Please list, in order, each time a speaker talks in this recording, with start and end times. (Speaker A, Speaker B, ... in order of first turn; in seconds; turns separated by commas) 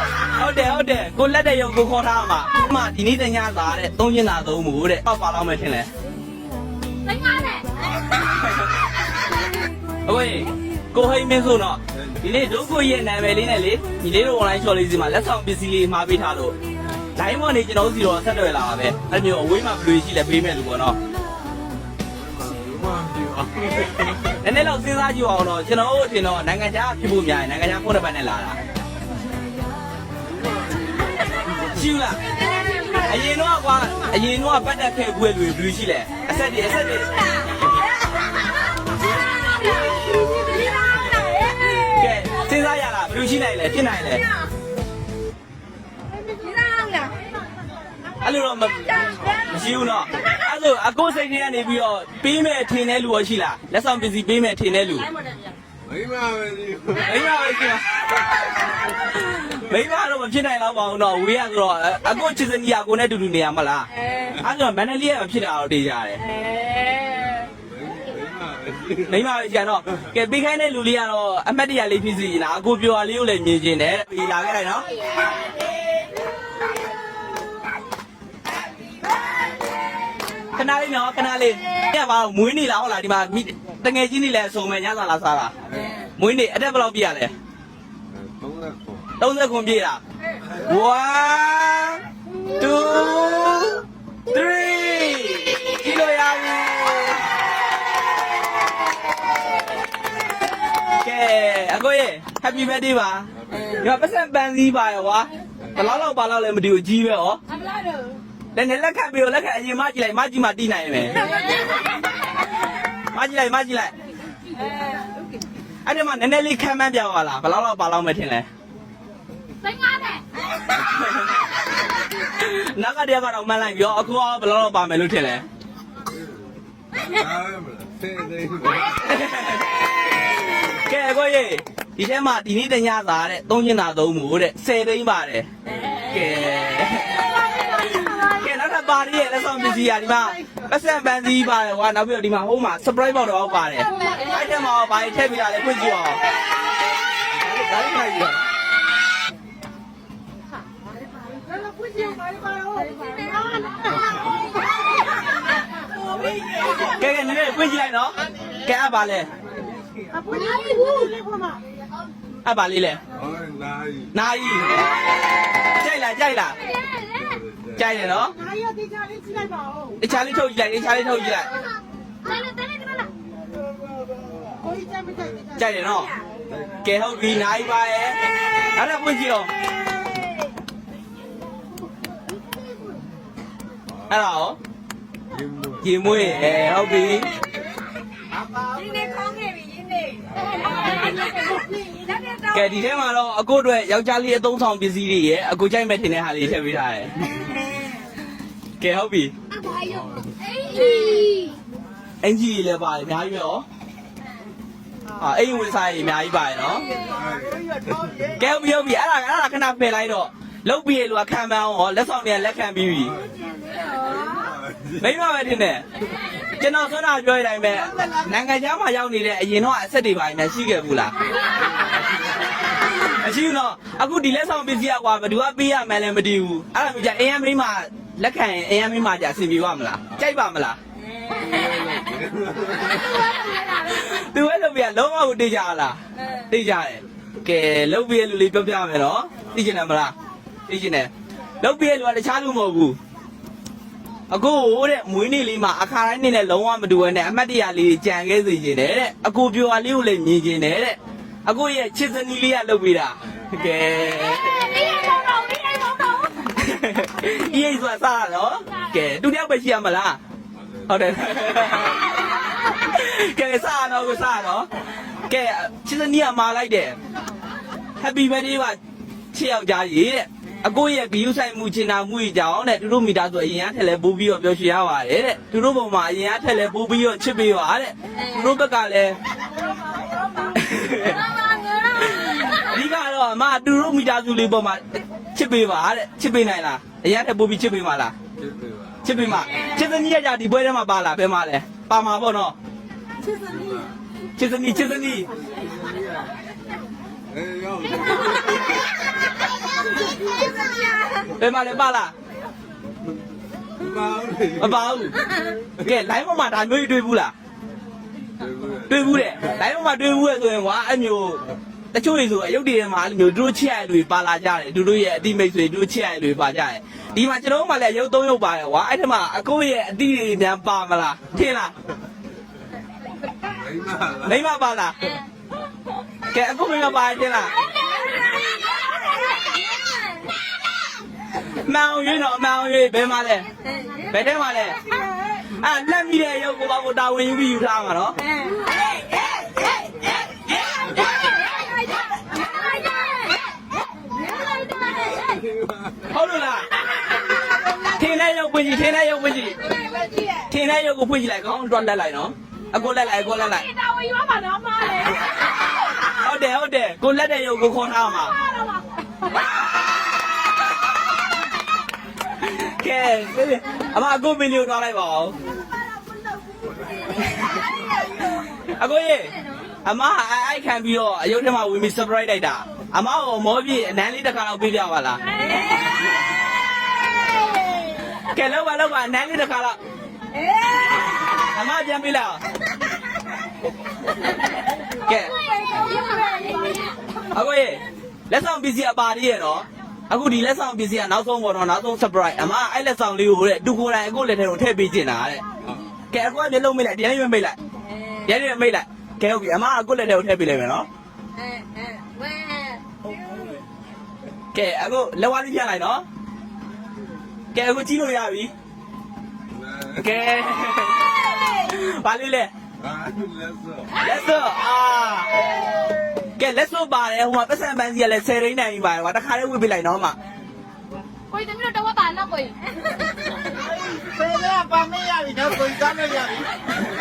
Speaker A: 0.2-5.9, Speaker B: 7.0-7.8, Speaker A: 10.1-16.6, Speaker A: 17.2-21.0, Speaker C: 22.3-23.9, Speaker A: 24.2-28.6, Speaker A: 31.6-32.2, Speaker A: 33.0-37.1, Speaker B: 39.7-41.7, Speaker A: 41.7-44.2, Speaker B: 46.2-47.1, Speaker A: 48.2-55.1, Speaker C: 55.9-57.1, Speaker A: 57.0-58.3, Speaker A: 59.0-66.2, Speaker B: 66.3-67.5, Speaker C: 67.7-69.1, Speaker A: 69.0-74.9, Speaker A: 80.5-85.5, Speaker A: 86.2-87.3, Speaker C: 88.2-89.0, Speaker A: 89.2-90.0, Speaker A: 90.5-92.0, Speaker A: 92.5-97.3, Speaker A: 101.0-107.4, Speaker A: 108.5-111.3, Speaker A: 113.1-113.9, Speaker A: 115.8-118.5, Speaker B: 119.6-120.2, Speaker A: 120.8-121.3, Speaker A: 122.2-125.5, Speaker C: 127.0-129.0, Speaker A: 128.9-129.7, Speaker A: 130.6-135.5, Speaker A: 136.0-146.2, Speaker A: 147.4-148.4, Speaker B: 151.9-153.5, Speaker A: 156.8-159.3, Speaker B: 160.2-161.4, Speaker D: 161.2-161.6, Speaker A: 162.4-163.0, Speaker C: 163.2-164.1, Speaker A: 164.1-164.9, Speaker A: 165.7-166.6, Speaker C: 167.2-167.7, Speaker A: 167.8-168.4, Speaker D: 168.7-169.7, Speaker A: 170.0-171.5, Speaker B: 172.2-173.1, Speaker A: 175.5-176.1, Speaker A: 176.8-179.5, Speaker A: 184.1-184.6, Speaker C: 185.3-185.7, Speaker A: 185.8-187.3, Speaker B: 188.6-192.4, Speaker D: 188.8-189.1, Speaker A: 192.5-197.4, Speaker A: 198.8-199.3, Speaker B: 199.6-201.6, Speaker A: 202.2-203.7, Speaker A: 205.2-206.9, Speaker C: 207.1-208.0, Speaker A: 208.4-213.2, Speaker C: 214.4-214.9, Speaker A: 214.9-215.8, Speaker A: 216.6-221.2, Speaker A: 223.0-230.8, Speaker C: 231.4-233.2, Speaker A: 233.7-240.2, Speaker A: 240.7-243.0, Speaker A: 244.3-254.8, Speaker B: 254.3-256.4, Speaker A: 256.4-260.2, Speaker A: 260.9-262.1, Speaker A: 262.6-264.7, Speaker A: 265.3-267.0, Speaker A: 268.0-268.8, Speaker A: 269.3-279.2, Speaker A: 280.5-281.3, Speaker A: 282.0-288.1, Speaker C: 288.4-288.9, Speaker A: 289.0-292.6, Speaker C: 293.4-293.9, Speaker A: 294.4-295.3, Speaker C: 295.6-296.3, Speaker C: 297.3-298.5, Speaker A: 301.4-302.1, Speaker C: 303.8-304.7, Speaker A: 304.6-305.2, Speaker A: 305.8-307.3, Speaker C: 308.4-308.9, Speaker A: 308.9-321.7, Speaker C: 323.4-324.3, Speaker A: 324.2-325.1, Speaker A: 326.3-327.6, Speaker A: 331.5-333.5, Speaker A: 334.1-334.8, Speaker A: 335.6-338.2, Speaker B: 341.5-341.8, Speaker B: 342.4-343.4, Speaker B: 344.2-345.4, Speaker C: 345.1-346.1, Speaker A: 346.1-346.7, Speaker A: 347.8-349.6, Speaker B: 349.9-350.3, Speaker A: 350.5-353.7, Speaker B: 353.5-355.2, Speaker A: 356.0-358.4, Speaker B: 358.4-359.4, Speaker A: 362.4-365.4, Speaker A: 368.7-375.2, Speaker A: 378.2-379.8, Speaker B: 380.4-380.9, Speaker A: 381.3-382.4, Speaker A: 385.0-385.3, Speaker B: 385.4-387.0, Speaker A: 387.3-395.4, Speaker A: 396.1-397.6, Speaker A: 398.2-400.9, Speaker B: 401.4-402.8, Speaker A: 404.5-406.0, Speaker A: 407.5-408.5, Speaker C: 409.5-410.0, Speaker A: 410.0-412.5, Speaker C: 412.8-413.9, Speaker A: 413.9-415.3, Speaker A: 416.4-420.1, Speaker B: 421.3-422.6, Speaker D: 424.2-426.3